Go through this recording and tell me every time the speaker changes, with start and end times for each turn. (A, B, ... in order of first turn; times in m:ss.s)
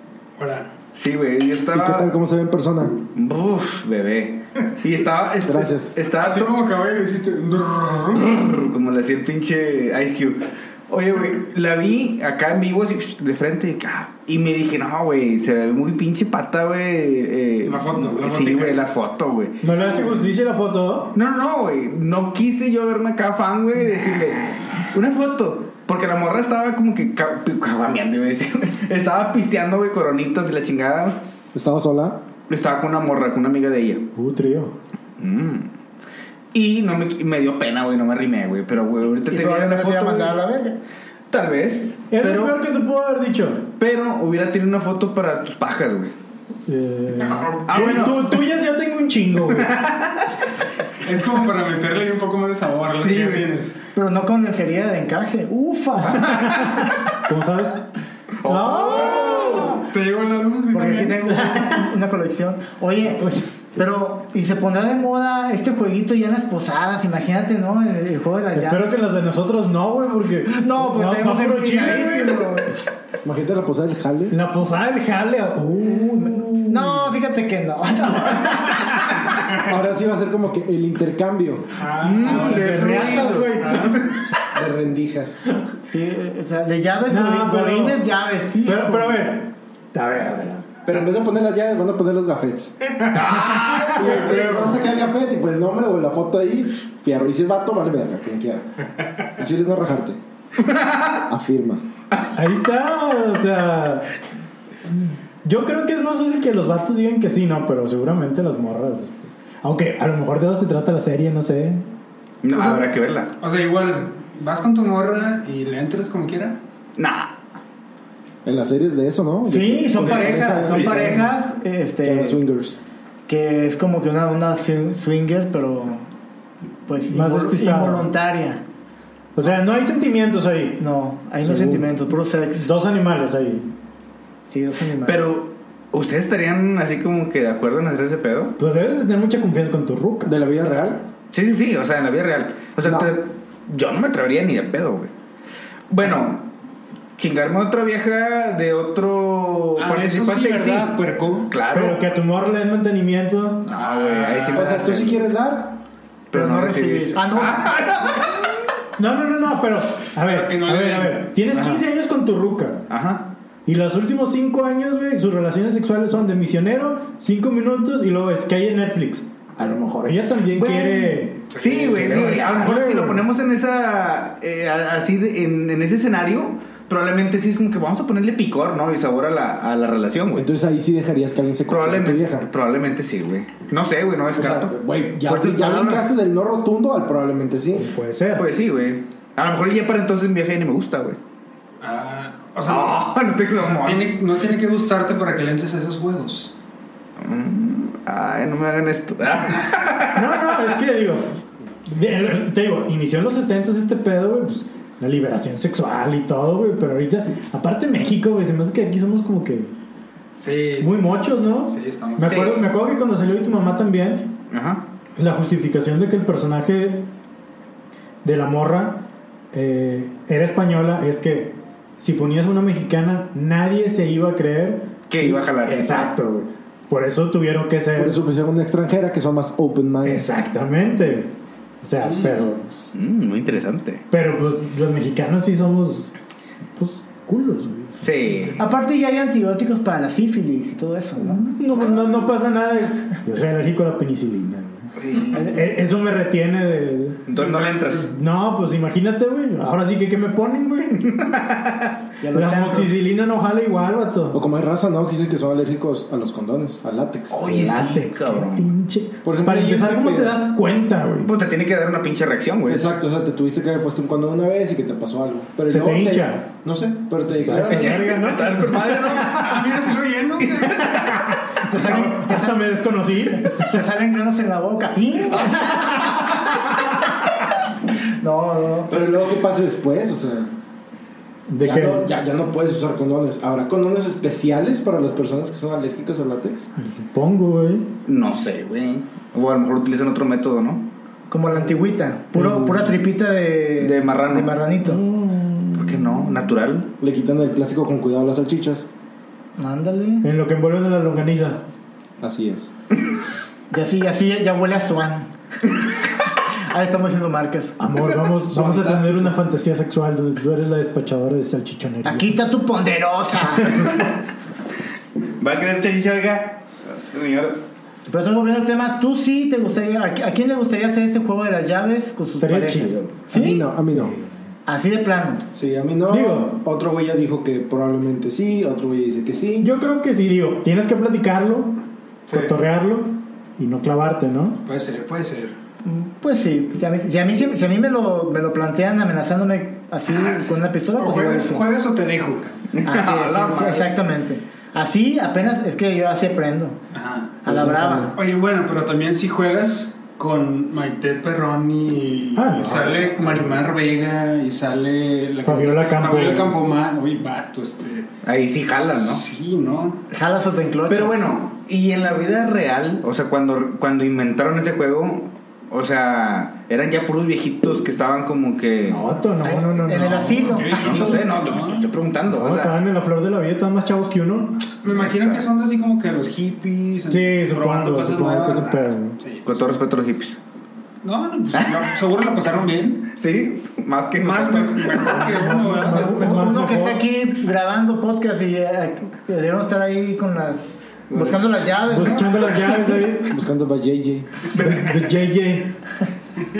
0:00.4-0:00.7 A
0:01.0-0:02.1 B
0:01.7-0:03.0 C
0:03.1-0:06.6 B
0:05.4-0:05.9 C
0:06.1-0:08.6 A
0:08.2-0:20.1 B
0:17.6-0:18.8 A
0:19.6-0:21.2 D
0:21.1-0:31.2 B
0:31.5-0:32.2 C
0:32.5-0:34.1 B
0:34.2-0:34.7 D
0:35.2-0:35.7 B
0:36.5-0:40.4 B
0:39.3-0:40.8 E
0:41.3-0:42.6 B
0:42.1-0:43.6 D
0:43.8-0:46.1 B
0:46.7-0:49.8 D
0:47.2-0:48.1 A
0:47.7-0:48.3 B
0:49.5-0:50.3 B
0:51.0-0:53.8 A
0:53.0-0:53.5 B
0:53.9-0:56.6 E
0:56.2-0:57.8 D
0:56.4-0:56.8 B
0:58.4-0:59.8 B
0:58.4-0:59.9 D
0:59.1-1:01.4 A
1:00.7-1:09.0 E
1:01.5-1:01.9 D
1:08.6-1:12.6 D
1:10.4-1:12.7 E
1:13.2-1:14.4 C
1:14.3-1:17.2 D
1:15.9-1:19.0 E
1:19.6-1:22.9 C
1:21.8-1:23.0 A
1:22.0-1:24.2 B
1:22.1-1:24.1 D
1:24.5-1:25.4 C
1:25.9-1:29.3 E
1:27.1-1:28.1 D
1:28.6-1:30.7 D
1:30.9-1:33.0 C
1:33.1-1:34.8 B
1:33.9-1:40.2 C
1:40.6-1:41.2 B
1:41.2-1:41.8 C
1:42.3-1:44.1 D
1:44.9-1:51.8 D
1:52.4-1:53.3 B
1:53.4-1:56.6 A
1:57.0-1:57.3 B
1:58.4-2:01.4 C
1:59.5-2:02.4 E
2:02.0-2:02.8 C
2:03.3-2:06.0 E
2:06.9-2:08.6 E
2:07.1-2:08.1 D
2:09.4-2:10.8 D
2:10.8-2:12.7 E
2:11.4-2:11.9 C
2:12.6-2:13.7 D
2:14.5-2:15.3 E
2:15.0-2:18.6 B
2:18.6-2:20.3 D
2:20.2-2:21.1 C
2:21.3-2:25.1 B
2:22.8-2:23.1 C
2:25.9-2:26.5 B
2:27.2-2:31.0 B
2:29.8-2:31.5 A
2:31.5-2:32.1 B
2:31.7-2:33.7 D
2:33.6-2:35.3 B
2:33.7-2:34.8 A
2:34.5-2:35.8 C
2:36.3-2:37.8 E
2:36.3-2:38.6 B
2:39.0-2:42.9 D
2:40.2-2:41.2 A
2:41.5-2:41.8 B
2:42.9-2:43.3 B
2:43.7-2:53.3 D
2:50.5-3:00.5 B
2:51.5-2:52.4 A
3:00.4-3:02.5 C
3:01.7-3:04.7 B
3:04.3-3:07.9 C
3:05.3-3:06.0 D
3:07.7-3:08.5 D
3:08.4-3:11.2 B
3:11.8-3:16.5 A
3:12.7-3:14.1 B
3:17.2-3:20.7 B
3:20.2-3:29.7 D
3:30.4-3:32.5 A
3:30.8-3:34.4 D
3:32.3-3:32.7 B
3:34.5-3:34.8 B
3:35.2-3:37.1 D
3:38.2-3:48.2 D
3:45.1-3:46.1 B
3:48.0-3:50.3 C
3:50.0-3:53.0 D
3:52.0-3:52.4 A
3:53.0-3:54.0 B
3:54.1-3:56.1 D
3:56.8-3:58.6 D
3:58.0-3:58.6 B
3:58.6-4:01.5 E
4:01.2-4:07.3 D
4:05.0-4:05.4 B
4:05.3-4:05.6 E
4:07.3-4:08.1 B
4:07.3-4:08.0 A
4:08.0-4:11.1 D
4:11.1-4:11.9 B
4:12.2-4:13.0 E
4:12.3-4:14.4 D
4:14.3-4:17.7 C
4:17.3-4:18.7 B
4:17.4-4:21.3 D
4:19.2-4:20.4 C
4:21.2-4:22.8 B
4:22.7-4:28.1 C
4:25.7-4:26.5 D
4:27.4-4:29.5 D
4:27.6-4:29.8 B
4:29.1-4:30.8 A
4:30.6-4:31.0 B
4:30.9-4:33.8 D
4:31.7-4:32.7 E
4:33.4-4:36.2 E
4:38.0-4:39.0 E
4:38.9-4:40.5 C
4:41.5-4:42.1 D
4:41.6-4:46.7 C
4:46.8-4:47.9 D
4:48.0-4:50.9 B
4:51.3-4:55.0 E
4:52.4-4:52.9 D
4:53.8-4:54.6 B
4:54.8-4:56.2 D
4:55.8-4:56.9 B
4:57.0-4:58.9 C
4:59.6-5:00.3 E
5:00.2-5:01.6 D
5:02.2-5:02.7 C
5:03.7-5:05.3 E
5:06.4-5:07.8 E
5:07.8-5:12.4 D
5:08.4-5:09.4 C
5:12.0-5:14.0 E
5:15.4-5:17.6 B
5:18.1-5:23.7 E
5:22.4-5:23.3 D
5:23.3-5:24.2 C
5:23.9-5:24.2 D
5:24.7-5:25.4 E
5:25.5-5:29.7 C
5:26.1-5:26.6 D
5:29.6-5:34.6 D
5:32.3-5:32.5 A
5:34.6-5:35.6 A
5:35.8-5:41.7 E
5:41.0-5:42.6 A
5:42.7-5:44.0 B
5:42.8-5:46.8 E
5:46.9-5:47.4 A
5:47.4-5:48.2 E
5:47.5-5:48.1 C
5:48.2-5:58.1 A
5:52.4-5:53.5 D
5:55.4-5:56.6 D
5:58.2-5:59.2 B
5:58.8-6:00.0 A
6:00.1-6:01.3 E
6:00.9-6:09.1 B
6:08.8-6:10.7 D
6:09.4-6:11.3 E
6:10.3-6:11.9 A
6:10.7-6:12.8 B
6:12.3-6:14.7 D
6:14.8-6:19.5 A
6:14.8-6:15.5 B
6:17.1-6:19.2 D
6:19.4-6:20.4 B
6:21.0-6:23.1 A
6:21.6-6:21.8 B
6:23.1-6:25.4 B
6:24.2-6:26.4 A
6:25.1-6:27.0 D
6:25.9-6:32.8 E
6:31.1-6:31.4 B
6:31.9-6:33.4 D
6:33.3-6:34.3 C
6:34.5-6:35.8 D
6:34.6-6:35.0 B